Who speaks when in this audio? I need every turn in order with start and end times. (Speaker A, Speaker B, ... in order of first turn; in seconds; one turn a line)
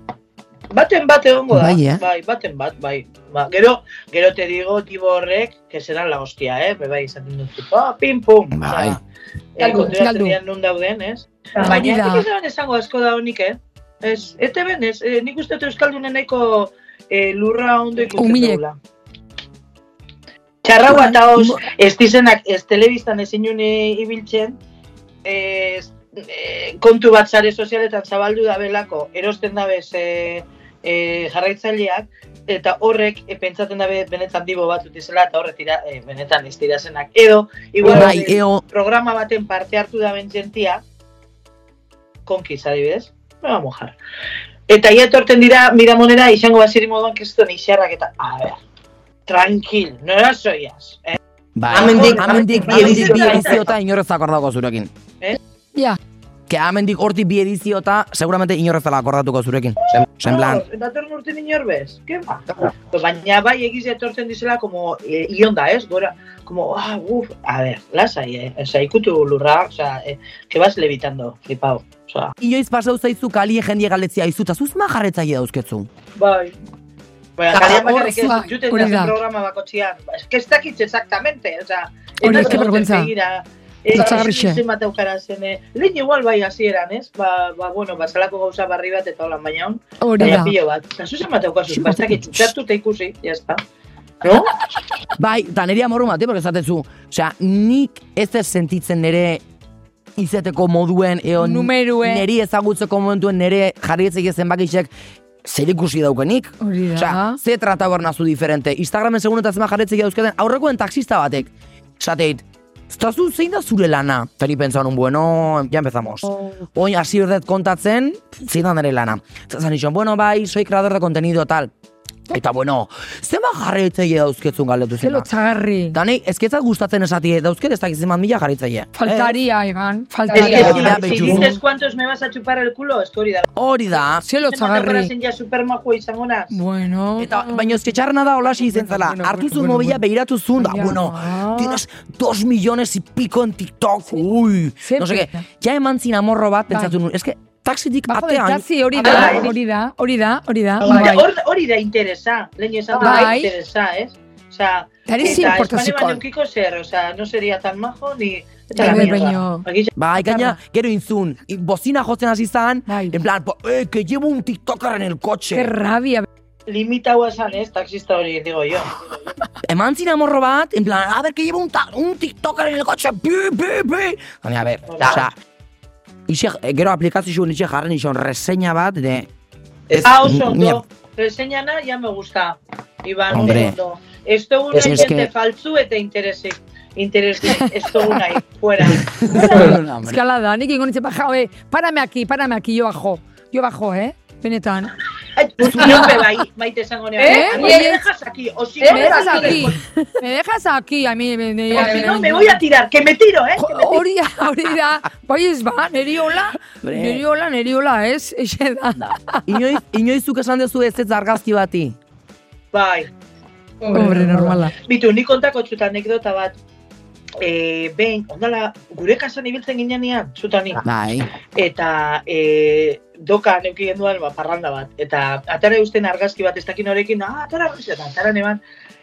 Speaker A: 0.7-9.0
Speaker B: 1.5-2.0
Speaker B: 8.5-9.0
Speaker A: 9.6-18.8
Speaker C: 9.7-10.4
Speaker C: 11.6-12.2
Speaker C: 18.2-18.6
Speaker A: 20.6-24.6
Speaker B: 21.3-21.6
Speaker A: 25.2-40.8
Speaker B: 37.8-38.6
Speaker A: 42.2-43.9
Speaker A: 44.7-48.6
Speaker A: 49.3-51.2
Speaker B: 51.5-54.9
Speaker A: 51.7-53.7
Speaker B: 56.5-60.6
Speaker A: 59.9-72.3
Speaker B: 72.4-75.9
Speaker A: 76.2-76.5
Speaker A: 77.4-93.6
Speaker B: 77.5-78.1
Speaker C: 77.5-79.1
Speaker C: 82.2-83.1
Speaker C: 83.9-84.6
Speaker C: 90.0-90.5
Speaker B: 91.7-92.5
Speaker A: 94.2-94.5
Speaker B: 95.2-99.4
Speaker B: 100.2-104.9
Speaker C: 101.4-102.2
Speaker B: 105.4-121.7
Speaker C: 106.6-107.4
Speaker B: 122.3-125.3
Speaker C: 125.0-126.0
Speaker B: 125.9-129.4
Speaker C: 128.9-131.2
Speaker A: 130.3-133.5
Speaker B: 130.3-131.6
Speaker B: 133.6-134.2
Speaker C: 134.2-135.1
Speaker A: 134.4-136.5
Speaker C: 136.5-137.8
Speaker B: 137.2-148.6
Speaker C: 138.6-140.0
Speaker C: 140.6-141.8
Speaker C: 144.8-145.4
Speaker C: 148.1-151.3
Speaker A: 149.0-149.5
Speaker A: 150.8-159.9
Speaker C: 153.0-153.5
Speaker C: 155.1-156.2
Speaker C: 158.8-159.7
Speaker B: 159.9-165.7
Speaker C: 160.2-160.6
Speaker C: 162.9-163.2
Speaker C: 165.5-166.3
Speaker A: 166.7-169.3
Speaker B: 169.6-175.3
Speaker A: 174.9-175.2
Speaker B: 176.3-179.3
Speaker B: 179.9-180.8
Speaker A: 180.0-189.6
Speaker B: 183.3-183.8
Speaker B: 184.7-185.3
Speaker B: 188.9-190.2
Speaker C: 189.4-194.9
Speaker A: 195.3-199.8
Speaker B: 195.7-196.1
Speaker C: 197.2-198.0
Speaker C: 198.8-202.6
Speaker A: 201.7-204.1
Speaker C: 203.6-209.5
Speaker B: 206.6-207.2
Speaker B: 209.0-212.0
Speaker A: 212.7-213.1
Speaker C: 213.9-214.7
Speaker A: 214.1-216.5
Speaker A: 217.4-220.8
Speaker B: 220.8-221.3
Speaker A: 221.6-228.6